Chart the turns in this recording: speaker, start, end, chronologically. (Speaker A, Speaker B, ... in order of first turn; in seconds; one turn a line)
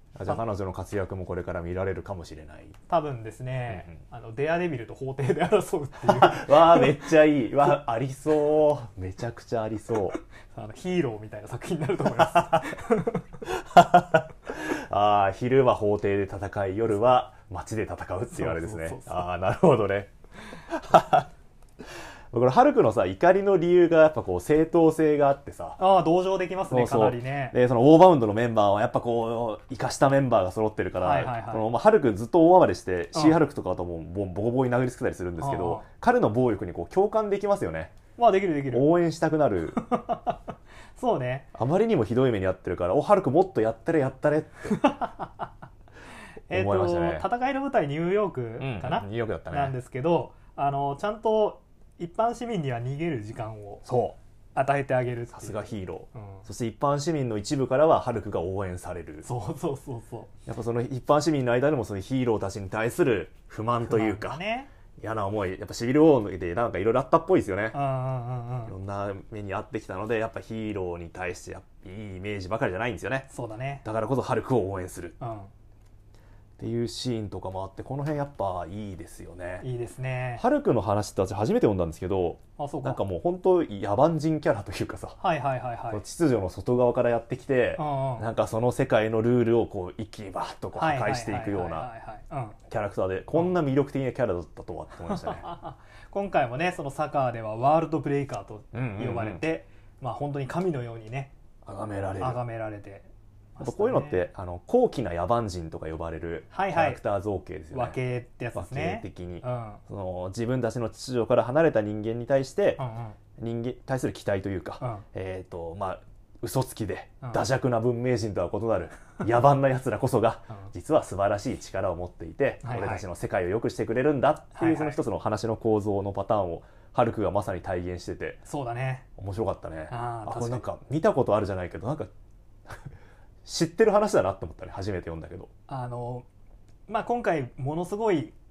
Speaker A: 0.1-2.8
Speaker B: 2.9-7.0
Speaker A: 3.7-4.0
Speaker A: 6.0-10.2
Speaker B: 10.5-13.4
Speaker A: 12.2-12.7
Speaker A: 13.5-20.1
Speaker B: 18.3-19.3
Speaker A: 20.7-21.3
Speaker A: 22.3-25.8
Speaker B: 25.8-27.6
Speaker A: 26.7-37.9
Speaker B: 31.0-31.7
Speaker B: 35.4-35.9
Speaker B: 38.2-38.9
Speaker A: 38.7-39.8
Speaker B: 39.7-41.5
Speaker A: 41.5-44.8
Speaker B: 44.7-45.5
Speaker B: 46.5-53.9
Speaker A: 46.5-47.3
Speaker A: 48.6-49.8
Speaker A: 53.9-54.2
Speaker B: 54.5-56.5
Speaker A: 55.3-59.3
Speaker B: 59.2-60.3
Speaker A: 60.5-64.4
Speaker B: 63.9-64.7
Speaker A: 65.0-67.8
Speaker B: 67.7-68.7
Speaker A: 68.7-73.3
Speaker B: 73.3-73.8
Speaker A: 73.8-75.2
Speaker B: 75.2-75.5
Speaker A: 76.6-79.7
Speaker B: 79.6-80.5
Speaker A: 80.4-85.2
Speaker B: 82.6-83.0
Speaker B: 85.2-86.0
Speaker A: 85.9-91.9
Speaker B: 87.8-88.3
Speaker B: 90.8-92.6
Speaker A: 92.7-95.5
Speaker B: 95.0-101.3
Speaker A: 98.7-99.4
Speaker A: 101.7-102.4
Speaker B: 102.2-104.2
Speaker A: 103.6-108.0
Speaker B: 106.5-107.0
Speaker B: 107.7-109.8
Speaker A: 108.5-112.8
Speaker B: 112.8-113.2
Speaker A: 113.4-128.4
Speaker B: 114.8-115.0
Speaker B: 122.6-123.0
Speaker B: 124.6-125.0
Speaker B: 128.5-129.1
Speaker A: 129.2-132.1
Speaker B: 129.9-130.7
Speaker A: 133.4-135.5
Speaker B: 135.7-136.2
Speaker B: 136.9-138.3